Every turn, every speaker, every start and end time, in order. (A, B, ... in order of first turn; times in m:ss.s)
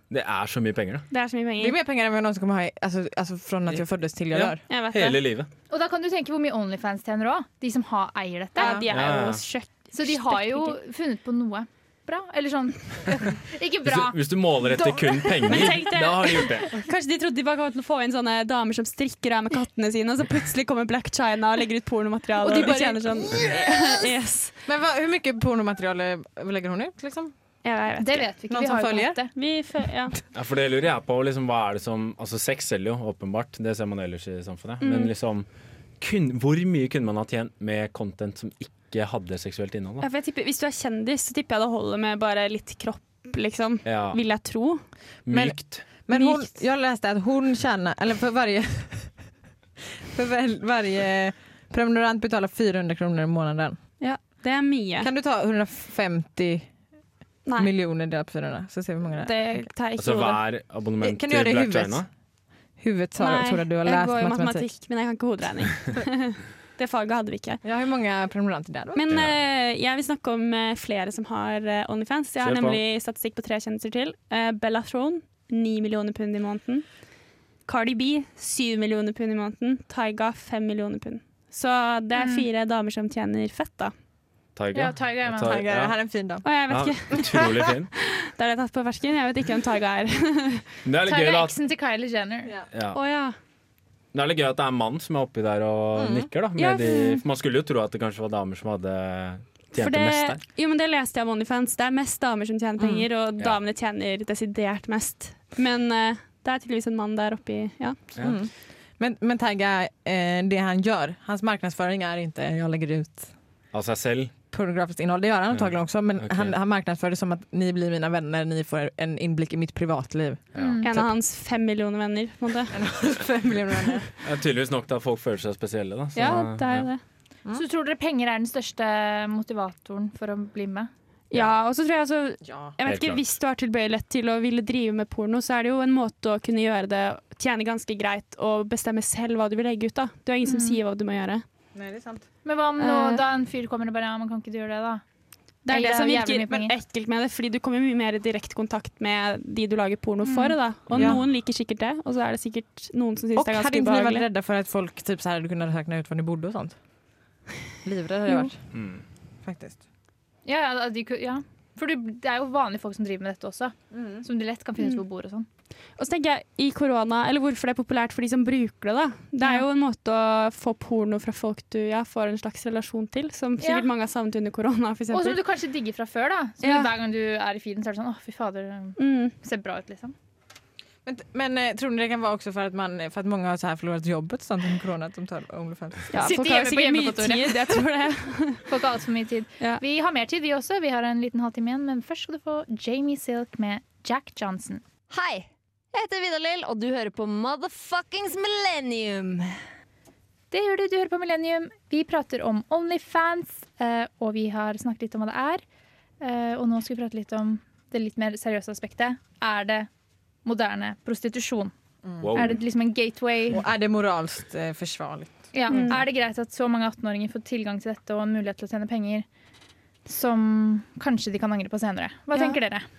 0:00.1-0:01.1 A
0:01.1-0:01.8 B
0:01.6-0:04.6 C
0:04.3-0:05.5 A
0:04.7-0:05.2 B
0:05.7-0:08.8 D
0:08.6-0:10.8 B
0:08.6-0:08.9 C
0:08.9-0:09.4 A
0:09.9-0:14.2 D
0:13.8-0:16.8 A
0:14.7-0:15.7 D
0:15.5-0:24.5 B
0:22.4-0:24.1 C
0:24.6-0:27.3 C
0:27.6-0:28.3 B
0:28.0-0:29.3 D
0:28.5-0:29.2 C
0:29.4-0:30.1 B
0:30.3-0:35.5 A
0:34.8-0:35.1 B
0:36.0-0:40.1 A
0:40.0-0:44.8 B
0:43.8-0:44.2 A
0:45.3-0:45.8 A
0:45.3-0:49.2 C
0:46.1-0:46.5 B
0:50.0-0:53.8 C
0:54.0-0:55.1 B
0:55.0-0:56.7 C
0:57.6-0:59.7 C
0:59.2-1:00.4 B
1:00.0-1:02.1 A
1:01.0-1:02.1 C
1:02.8-1:04.7 C
1:03.2-1:07.6 B
1:07.6-1:09.0 C
1:09.0-1:16.8 B
1:12.4-1:12.8 A
1:17.7-1:23.9 B
1:22.2-1:22.4 D
1:24.6-1:26.0 A
1:24.7-1:25.6 D
1:25.4-1:26.5 C
1:26.4-1:30.7 B
1:26.7-1:27.9 A
1:27.2-1:27.6 C
1:30.8-1:31.6 A
1:31.1-1:32.5 D
1:32.7-1:33.0 A
1:32.9-1:33.4 B
1:34.1-1:40.4 A
1:35.9-1:36.3 C
1:36.6-1:37.2 B
1:39.8-1:48.0 B
1:42.8-1:43.1 C
1:48.2-1:53.3 C
1:53.7-1:54.4 A
1:54.5-2:01.1 C
1:55.5-1:56.5 A
2:00.6-2:00.9 D
2:00.8-2:02.7 B
2:02.7-2:04.1 C
2:04.2-2:06.9 A
2:06.2-2:07.0 B
2:07.5-2:10.9 D
2:11.3-2:21.4 B
2:12.4-2:12.8 C
2:12.8-2:13.2 A
2:20.4-2:20.8 D
2:21.8-2:22.3 C
2:22.4-2:25.0 D
2:22.8-2:23.2 B
2:25.7-2:34.3 B
2:25.7-2:26.7 D
2:30.2-2:30.6 D
2:30.9-2:31.2 A
2:30.9-2:31.2 C
2:33.4-2:36.8 C
2:37.8-2:38.6 C
2:38.7-2:39.0 A
2:39.4-2:39.8 C
2:40.5-2:45.5 D
2:43.9-2:44.2 C
2:46.0-2:55.4 B
2:53.6-2:53.9 D
2:55.1-3:00.1 D
2:56.6-2:56.9 B
2:59.0-2:59.3 B
3:01.0-3:06.3 C
3:06.1-3:08.6 B
3:06.2-3:07.6 D
3:08.7-3:14.8 D
3:15.1-3:19.6 E
3:20.5-3:25.6 D
3:26.2-3:29.9 D
3:30.4-3:31.7 D
3:32.0-3:32.5 C
3:32.2-3:32.6 A
3:32.3-3:33.6 D
3:33.5-3:36.0 C
3:35.5-3:39.3 D
3:35.7-3:36.0 B
3:40.1-3:42.9 D